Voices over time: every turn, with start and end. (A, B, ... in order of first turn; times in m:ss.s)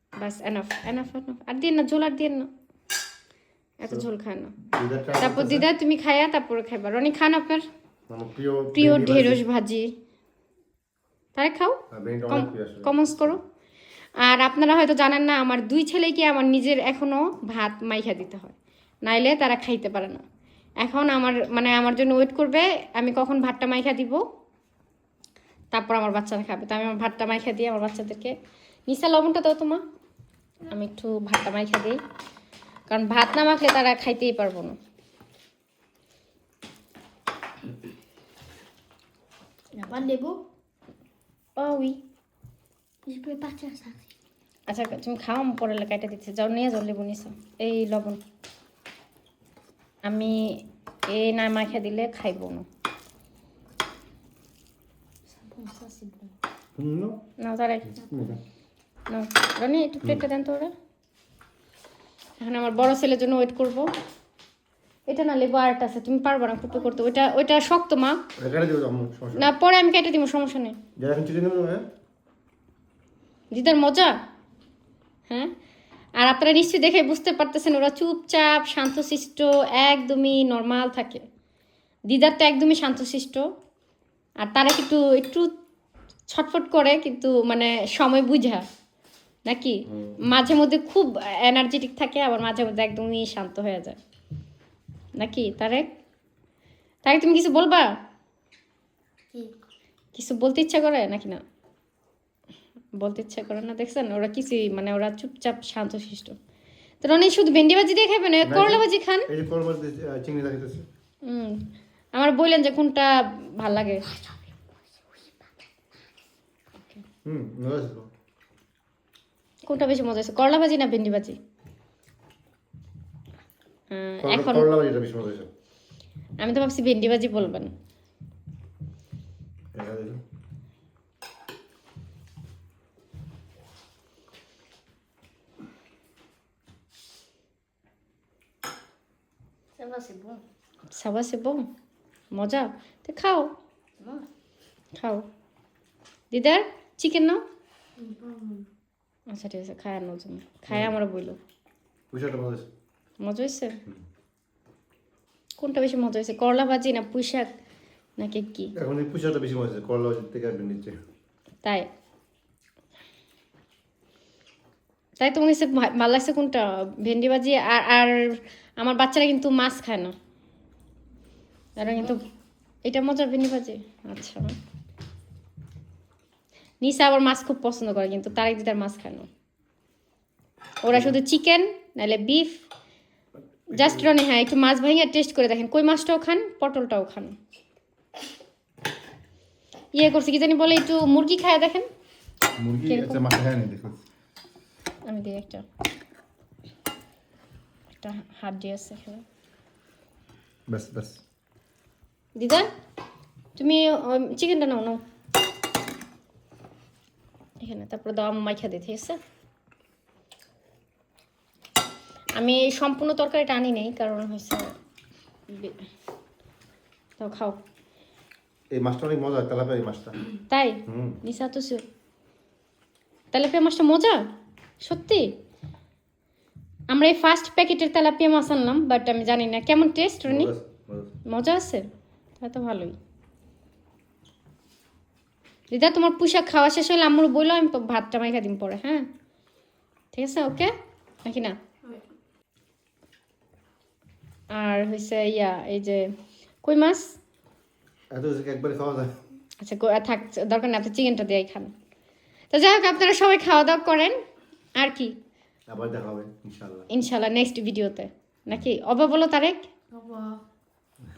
0:00.2-0:02.5 A
0:03.8-0:04.6 A
0:04.6-0:05.7 B
0:05.2-0:07.6 A
0:08.1-0:09.4 B
0:08.8-0:09.9 A
0:11.4-0:13.4 A
0:11.9-0:13.4 B
0:14.2-0:20.2 A
0:20.8-0:24.2 A
0:25.7-0:28.3 A
0:28.9-0:29.8 A
0:30.6-0:32.0 A
0:32.9-0:34.8 A
0:39.7-0:40.4 C
0:41.6-0:42.0 A
0:43.1-0:44.0 C
0:44.7-0:48.2 A
0:50.0-0:52.7 A
0:55.3-0:56.4 C
0:56.8-0:57.2 B
0:57.4-0:58.0 A
0:57.9-0:58.4 B
0:59.1-1:00.7 A
1:02.4-1:03.9 A
1:05.1-1:08.2 A
1:08.4-1:09.5 B
1:09.3-1:10.8 A
1:11.0-1:11.8 B
1:13.5-1:14.2 A
1:16.2-1:21.2 A
1:22.1-1:23.5 A
1:24.4-1:25.5 A
1:26.3-1:28.6 A
1:29.5-1:34.0 A
1:29.9-1:30.2 B
1:35.2-1:35.9 A
1:37.0-1:37.9 A
1:40.1-1:41.4 A
1:43.0-1:46.4 A
1:47.0-1:49.3 A
1:48.4-1:50.8 B
1:51.2-1:54.2 A
1:57.2-1:58.1 B
1:59.7-2:01.4 A
2:03.9-2:04.7 A
2:04.2-2:05.5 B
2:06.4-2:07.7 A
2:09.7-2:10.2 B
2:19.8-2:20.4 C
2:20.9-2:21.7 A
2:22.3-2:23.5 A
2:24.0-2:24.3 C
2:25.0-2:25.2 A
2:26.3-2:27.4 A
2:28.0-2:28.7 C
2:29.3-2:31.4 A
2:30.7-2:31.0 B
2:32.1-2:32.7 B
2:33.2-2:33.8 A
2:35.6-2:37.5 A
2:38.2-2:38.7 A
2:38.8-2:41.0 B
2:45.2-2:50.2 A
2:51.8-2:52.2 A
2:52.8-2:54.6 A
2:56.8-2:59.3 A
3:00.8-3:02.6 A
3:03.7-3:04.1 B
3:03.7-3:07.4 A
3:09.9-3:11.9 A
3:12.6-3:14.0 B
3:12.8-3:13.2 A
3:15.0-3:15.6 A
3:18.0-3:19.2 A
3:20.7-3:21.2 B
3:22.4-3:22.7 A
3:23.6-3:25.0 A
3:27.6-3:29.2 A
3:32.4-3:34.7 A
3:35.5-3:35.8 A
3:37.2-3:37.6 A
3:38.7-3:40.2 B
3:40.5-3:41.8 A
3:40.9-3:41.2 B
3:43.3-3:44.3 A
3:44.8-3:45.3 A
3:46.9-3:50.5 A
3:50.3-3:51.2 B
3:51.3-3:51.9 A
3:52.4-3:53.0 A
3:55.7-3:59.0 A
4:00.1-4:00.7 A
4:01.2-4:01.6 A
4:04.5-4:06.1 A
4:06.6-4:07.2 A
4:08.1-4:09.1 B
4:09.6-4:11.7 A
4:12.5-4:14.2 A
4:14.8-4:15.2 A
4:15.7-4:16.9 B
4:16.9-4:19.6 A
4:19.9-4:20.4 C